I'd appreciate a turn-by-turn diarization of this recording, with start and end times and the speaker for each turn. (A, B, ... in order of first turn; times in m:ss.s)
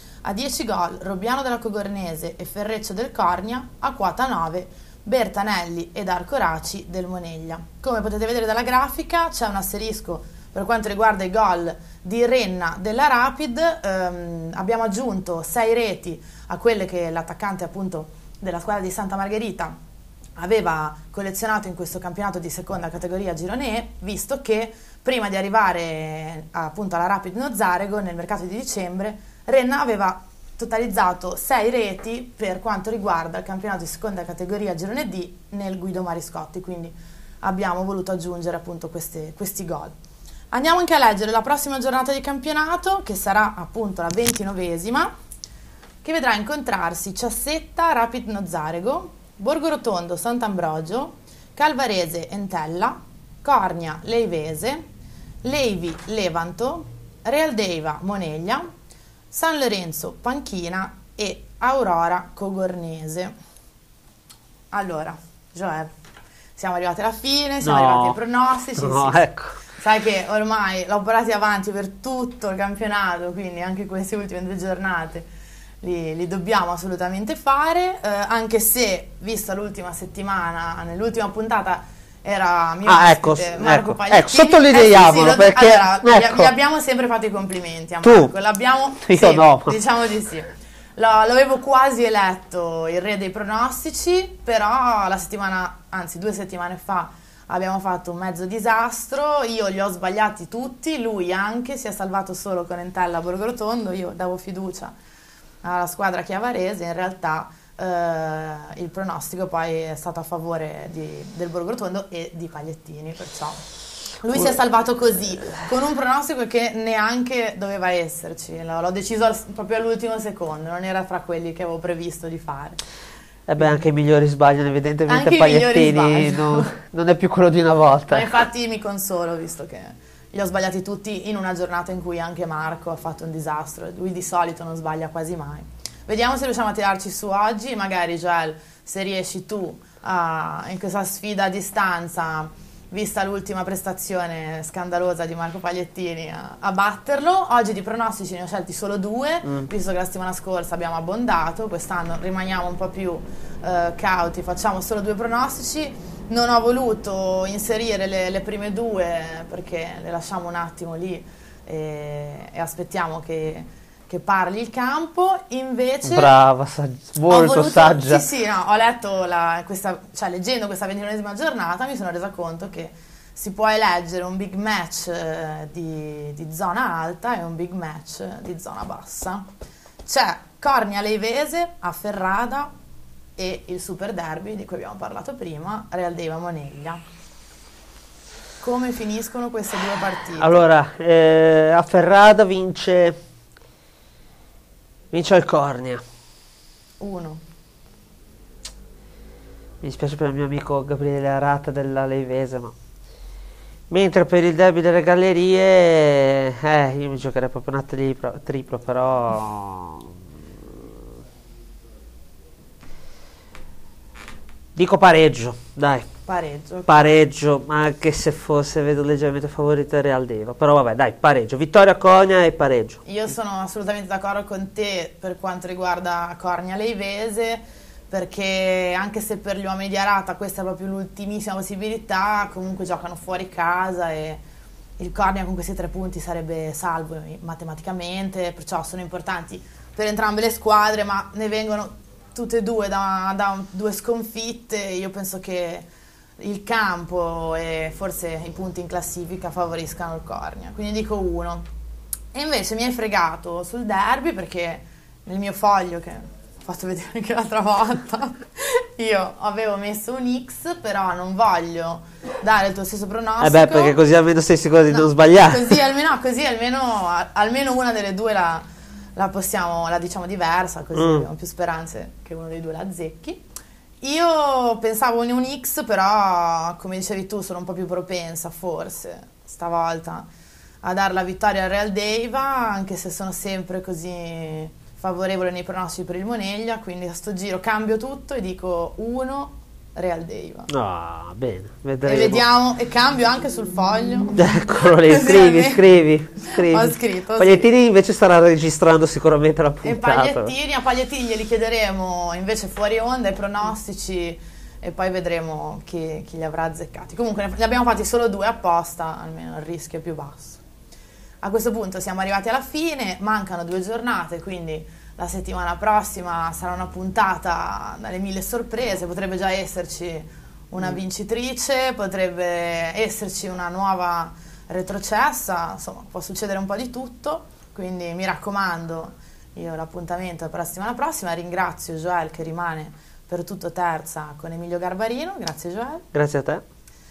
0:00.2-0:19.8 A
0:20.4-0:40.0 A
0:40.5-0:45.1 A
0:46.0-0:54.8 A
0:55.4-0:58.7 A
0:59.3-1:03.3 A
1:04.7-1:05.9 A
1:06.6-1:15.3 A
1:07.6-1:08.2 B
1:08.8-1:09.6 B
1:15.8-1:45.0 A
1:22.9-1:26.5 B
1:28.0-1:28.3 B
1:29.0-1:29.8 B
1:45.6-1:53.6 A
1:54.2-2:02.8 A
2:03.5-2:08.4 B
2:03.6-2:03.9 A
2:05.1-2:06.7 A
2:08.1-2:46.3 A
2:29.4-2:29.7 B
2:46.0-2:48.2 B
2:47.3-2:59.5 A
3:00.1-3:02.7 A
3:03.4-3:07.0 A
3:08.6-3:10.6 A
3:10.4-3:13.2 B
3:15.1-3:16.0 B
3:17.0-3:17.4 A
3:19.8-3:22.8 B
3:23.9-3:30.2 B
3:34.8-3:36.1 B
3:36.3-3:36.9 A
3:36.9-3:43.0 B
3:43.0-3:54.4 A
3:55.0-4:05.9 A
4:06.4-4:11.7 A
4:12.3-4:24.0 A
4:23.4-4:25.8 B
4:24.9-4:28.6 A
4:29.2-4:33.4 A
4:31.0-4:31.3 B
4:34.0-4:40.3 A
4:40.8-4:50.7 A
4:50.7-4:52.4 B
4:52.0-4:54.5 A
4:54.4-5:00.5 B
4:55.1-4:55.8 A
4:56.5-4:57.7 A
4:59.8-5:10.6 A
5:11.4-5:36.1 A
5:36.1-5:36.6 B